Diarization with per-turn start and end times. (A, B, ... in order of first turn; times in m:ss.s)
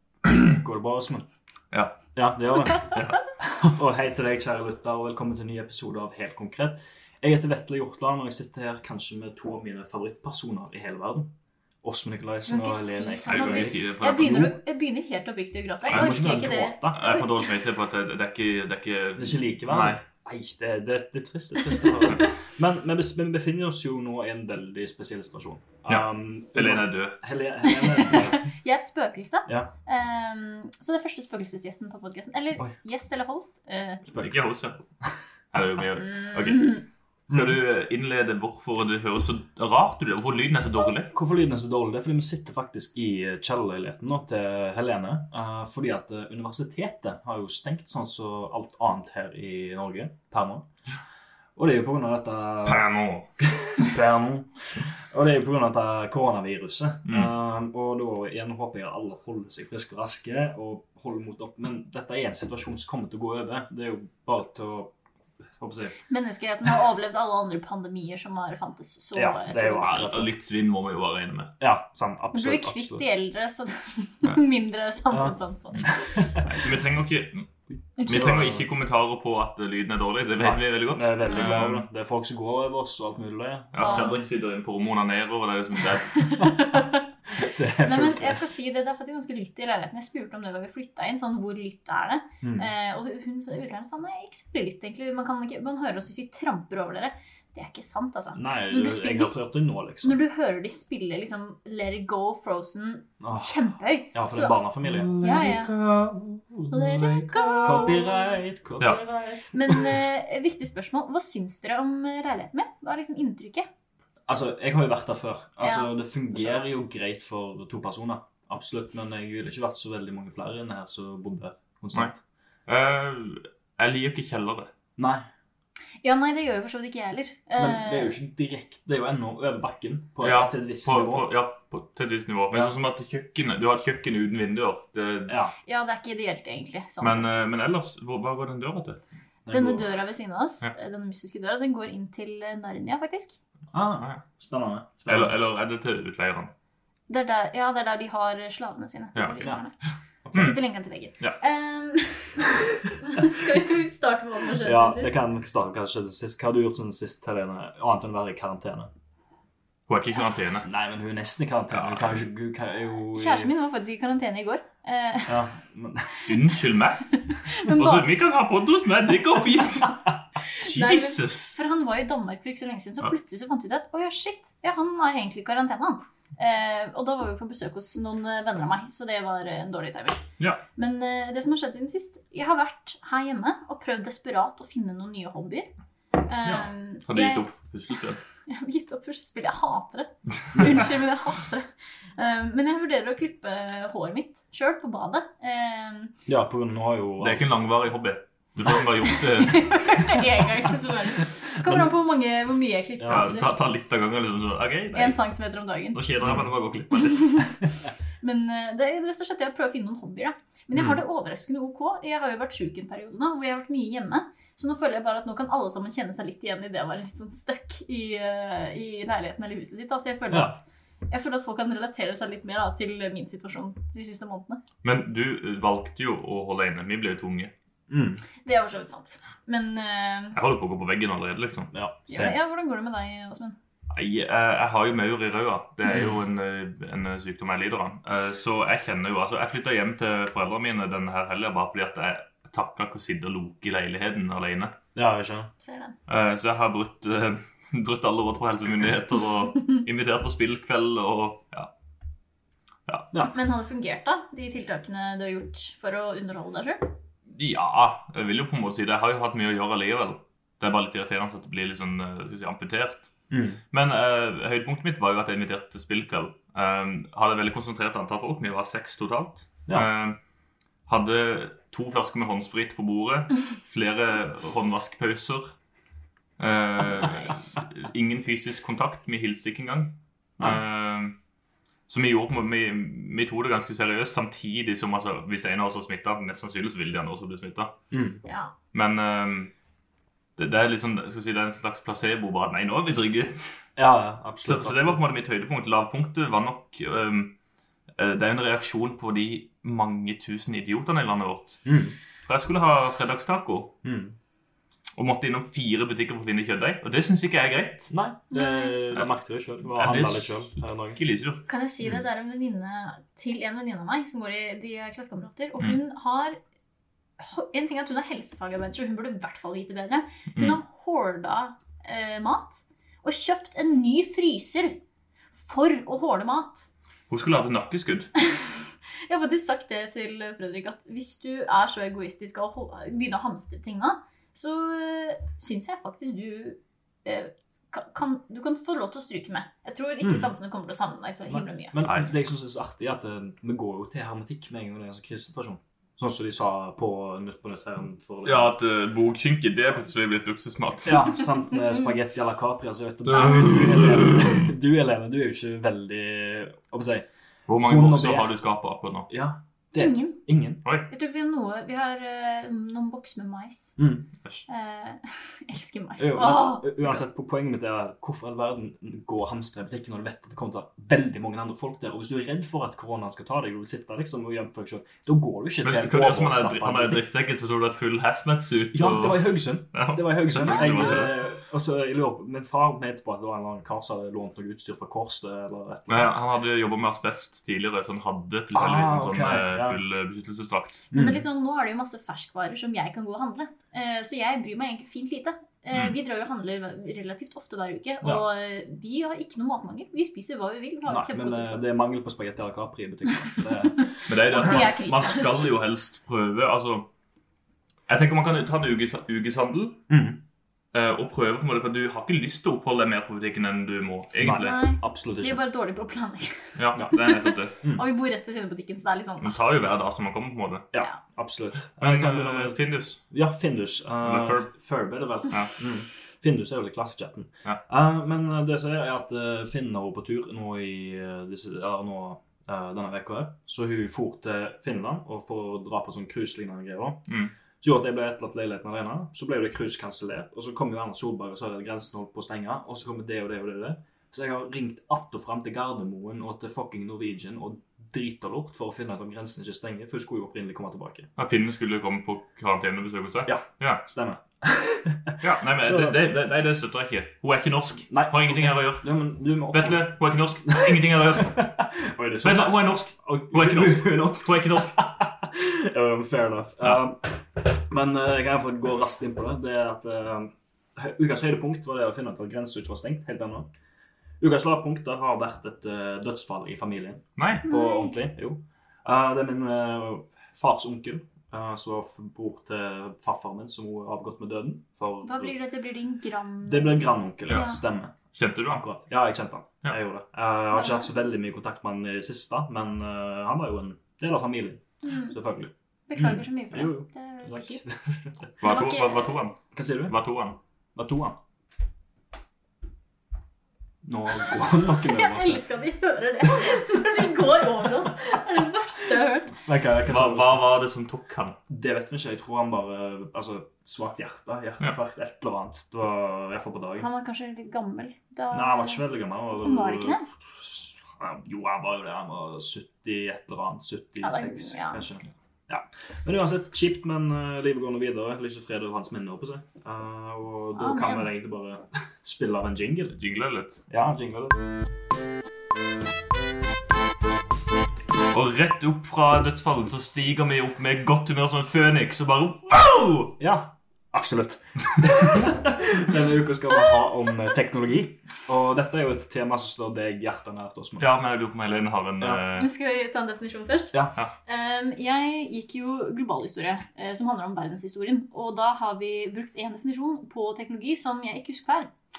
0:00.2-0:01.2 A
0:01.7-0:02.0 B
0:02.2-0:03.0 A
0:02.8-0:03.2 B
0:03.5-0:11.3 A
0:11.8-0:14.5 A
0:12.5-0:17.4 C
0:13.2-0:14.5 B
0:15.9-0:17.0 A
0:16.9-0:20.0 B
0:19.2-0:28.5 A
0:25.9-0:27.2 B
0:27.6-0:34.0 C
0:34.1-0:34.4 A
0:34.1-0:34.9 B
0:35.5-0:41.1 B
0:36.0-0:36.8 C
0:41.1-0:50.6 A
0:51.6-0:52.8 A
0:52.6-0:53.3 B
0:53.4-1:04.9 A
1:05.5-1:06.0 A
1:06.1-1:10.2 C
1:09.1-1:10.3 A
1:09.8-1:11.5 B
1:11.6-1:13.0 A
1:12.3-1:16.3 C
1:15.1-1:16.5 A
1:16.4-1:17.5 B
1:18.0-1:18.4 C
1:18.0-1:21.8 B
1:18.1-1:18.6 A
1:20.4-1:24.2 A
1:23.7-1:26.4 B
1:23.8-1:24.1 C
1:26.2-1:27.0 C
1:27.3-1:28.5 A
1:27.8-1:39.4 C
1:32.4-1:32.7 A
1:38.3-1:40.2 A
1:40.0-1:44.6 C
1:43.2-1:43.5 A
1:44.1-1:45.1 A
1:44.9-1:47.9 B
1:45.2-1:45.8 C
1:46.7-1:48.2 C
1:47.6-1:50.0 A
1:49.5-1:53.7 C
1:54.3-2:02.2 A
1:55.6-1:56.6 C
2:02.7-2:04.7 B
2:05.0-2:05.2 A
2:06.0-2:08.1 C
2:07.6-2:11.3 A
2:10.2-2:15.4 B
2:15.3-2:15.5 A
2:15.7-2:17.4 C
2:17.0-2:19.0 B
2:19.4-2:19.9 A
2:19.5-2:23.3 C
2:23.7-2:25.3 A
2:24.0-2:24.2 B
2:25.0-2:26.5 B
2:27.1-2:29.7 C
2:29.1-2:29.6 B
2:30.2-2:30.5 A
2:30.3-2:30.6 B
2:30.3-2:35.1 C
2:34.6-2:38.9 A
2:39.9-2:40.7 B
2:40.6-2:43.5 A
2:41.7-2:42.2 B
2:43.1-2:45.4 C
2:45.3-2:46.2 A
2:46.2-2:50.0 B
2:47.2-2:48.0 C
2:50.6-2:51.6 B
2:50.6-3:00.2 C
3:00.8-3:05.7 C
3:06.2-3:07.5 C
3:07.0-3:08.2 B
3:08.5-3:16.1 C
3:16.2-3:17.4 A
3:17.2-3:20.2 B
3:19.0-3:23.5 C
3:21.6-3:21.9 A
3:23.0-3:23.3 A
3:23.1-3:25.2 B
3:24.9-3:26.0 C
3:25.9-3:27.4 B
3:27.0-3:27.6 C
3:28.2-3:44.6 C
3:44.8-3:47.5 B
3:47.9-3:48.2 A
3:48.4-3:50.4 C
3:50.3-3:51.7 B
3:51.7-3:52.4 A
3:52.1-3:53.6 C
3:53.9-4:04.7 B
4:04.9-4:05.5 A
4:05.6-4:06.0 C
4:06.1-4:11.7 B
4:13.3-4:16.9 C
4:17.3-4:23.1 B
4:23.3-4:23.6 A
4:23.7-4:30.2 B
4:30.9-4:35.5 B
4:36.4-4:41.2 B
4:41.9-4:47.7 B
4:47.9-4:48.2 A
4:48.2-4:48.5 C
4:48.7-4:49.5 B
4:50.4-4:53.7 B
4:53.8-4:55.0 A
4:54.4-4:57.3 B
4:58.0-5:01.6 B
5:01.6-5:02.0 A
5:02.2-5:03.7 B
5:03.8-5:04.1 A
5:05.0-5:07.9 B
5:07.9-5:11.0 A
5:08.3-5:08.8 C
5:09.7-5:11.4 B
5:11.5-5:16.4 C
5:17.2-5:24.8 C
5:25.3-5:26.7 C
5:27.1-5:28.1 B
5:28.2-5:41.8 C
5:40.0-5:40.3 A
5:41.3-5:48.5 A
5:48.2-5:51.2 B
5:50.8-5:57.1 A
5:53.1-5:54.4 B
5:57.5-5:59.1 B
5:57.6-5:58.3 A
5:59.1-6:00.6 A
5:59.8-6:00.2 C
6:00.9-6:03.8 C
6:03.8-6:04.1 A
6:04.5-6:07.0 C
6:06.0-6:17.0 A
6:15.6-6:21.2 B
6:18.7-6:26.2 A
6:25.9-6:30.8 B
6:28.5-6:29.8 A
6:30.9-6:31.2 A
6:30.9-6:41.6 C
6:40.9-6:43.8 A
6:43.8-6:45.4 C
6:44.1-6:46.9 B
6:47.9-6:49.8 B
6:49.9-6:50.2 A
6:50.7-6:54.6 B
6:54.2-6:55.4 A
6:54.2-6:59.4 C
6:56.6-6:57.6 B
6:59.2-7:00.7 B
7:00.7-7:17.0 A
7:01.8-7:03.0 B
7:04.0-7:04.5 B
7:05.3-7:05.5 B
7:17.1-7:17.3 B
7:17.6-7:31.1 A
7:31.2-7:33.8 B
7:33.2-7:36.0 A
7:35.2-7:39.0 B
7:37.9-7:39.9 A
7:39.5-7:41.5 B
7:40.5-7:53.5 A
7:42.2-7:44.7 B
7:54.2-8:05.3 A
7:57.2-7:57.5 B
7:57.4-7:58.0 C
8:05.0-8:07.6 C
8:06.4-8:07.9 A
8:07.3-8:07.5 B
8:08.1-8:08.6 B
8:08.5-8:18.3 A
8:10.5-8:10.9 C
8:14.8-8:15.2 C
8:15.9-8:17.6 C
8:18.4-8:20.4 B
8:18.4-8:19.2 C
8:19.5-8:19.9 A
8:20.7-8:21.2 A
8:23.8-8:25.4 A
8:24.6-8:29.4 C
8:29.4-8:30.4 A
8:29.8-8:31.4 B
8:31.5-8:36.9 A
8:36.8-8:38.8 C
8:38.3-8:53.0 A
8:39.4-8:40.0 C
8:44.0-8:44.8 C
8:50.5-8:51.1 C
8:53.0-8:53.6 B
8:53.7-8:54.4 A
8:58.1-9:03.2 B
9:03.2-9:10.9 A
9:10.8-9:12.5 B
9:12.3-9:21.7 C